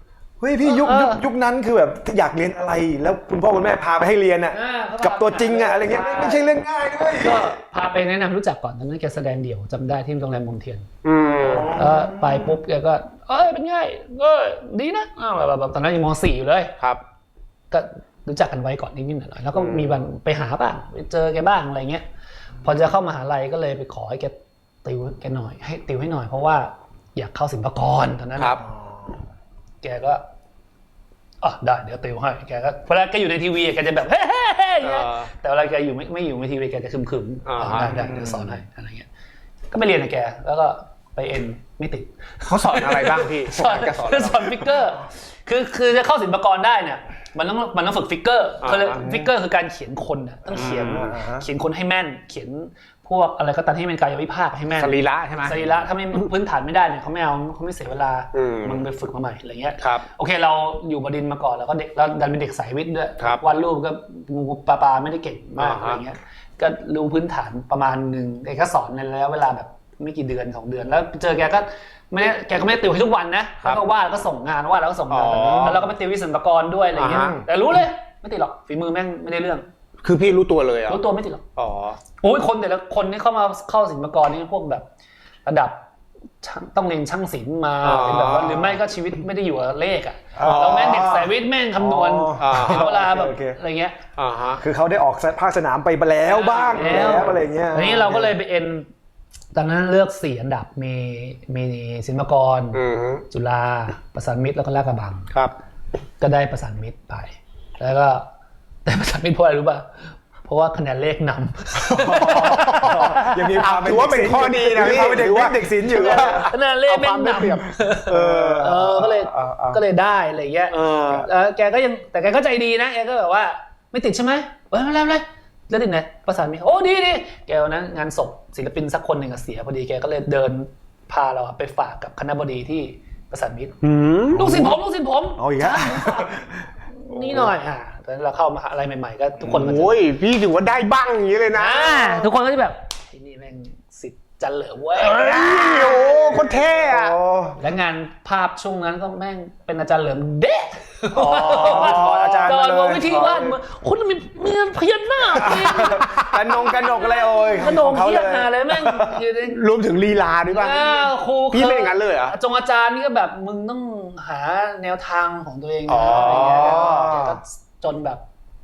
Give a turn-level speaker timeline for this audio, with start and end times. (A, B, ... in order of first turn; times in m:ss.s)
0:00.4-0:07.6 A
0:00.6-0:01.2 B
0:04.5-0:06.5 B
0:07.1-0:10.9 B
0:11.0-0:11.8 C
0:11.4-0:12.6 A
0:11.7-0:16.8 B
0:17.7-0:22.0 B
0:22.6-0:28.6 B
0:28.6-0:29.2 A
0:29.8-0:30.2 B
0:31.4-0:39.1 B
0:34.8-0:35.3 C
0:37.5-0:38.0 C
0:37.9-0:38.6 A
0:39.7-1:19.6 B
0:42.4-0:44.7 C
0:48.6-0:49.0 C
0:49.0-0:49.3 A
0:50.5-0:51.5 A
0:50.6-0:51.0 C
0:54.7-0:55.6 C
0:58.3-0:58.8 C
0:59.8-1:00.0 C
1:05.6-1:06.0 C
1:15.1-1:15.8 C
1:15.5-1:15.8 A
1:17.0-1:17.4 C
1:20.0-1:21.0 C
1:20.9-1:21.4 B
1:21.6-1:22.0 C
1:22.2-1:24.9 B
1:25.4-1:25.9 B
1:26.4-1:34.0 B
1:27.8-1:28.8 C
1:30.4-1:33.6 A
1:30.4-1:30.9 C
1:32.4-1:33.0 C
1:34.2-1:34.6 C
1:34.6-1:38.4 A
1:36.3-1:38.9 B
1:36.6-1:37.2 C
1:39.5-1:45.3 B
1:42.7-1:43.3 C
1:46.2-1:48.3 B
1:48.8-1:53.0 B
1:51.9-1:56.5 A
1:52.1-1:59.8 C
1:55.9-2:13.8 B
1:58.1-1:59.0 A
2:00.7-2:01.3 C
2:13.8-2:14.5 C
2:14.3-2:16.4 B
2:14.3-2:14.8 A
2:15.4-2:17.6 A
2:16.9-2:20.0 B
2:19.4-2:22.3 C
2:21.5-2:25.3 B
2:25.0-2:27.2 C
2:25.3-2:27.6 A
2:27.6-2:39.6 B
2:31.1-2:33.6 A
2:31.4-2:32.1 C
2:35.3-2:39.2 A
2:39.5-2:42.4 C
2:40.5-2:48.2 B
2:45.9-2:47.3 C
2:46.1-2:47.3 A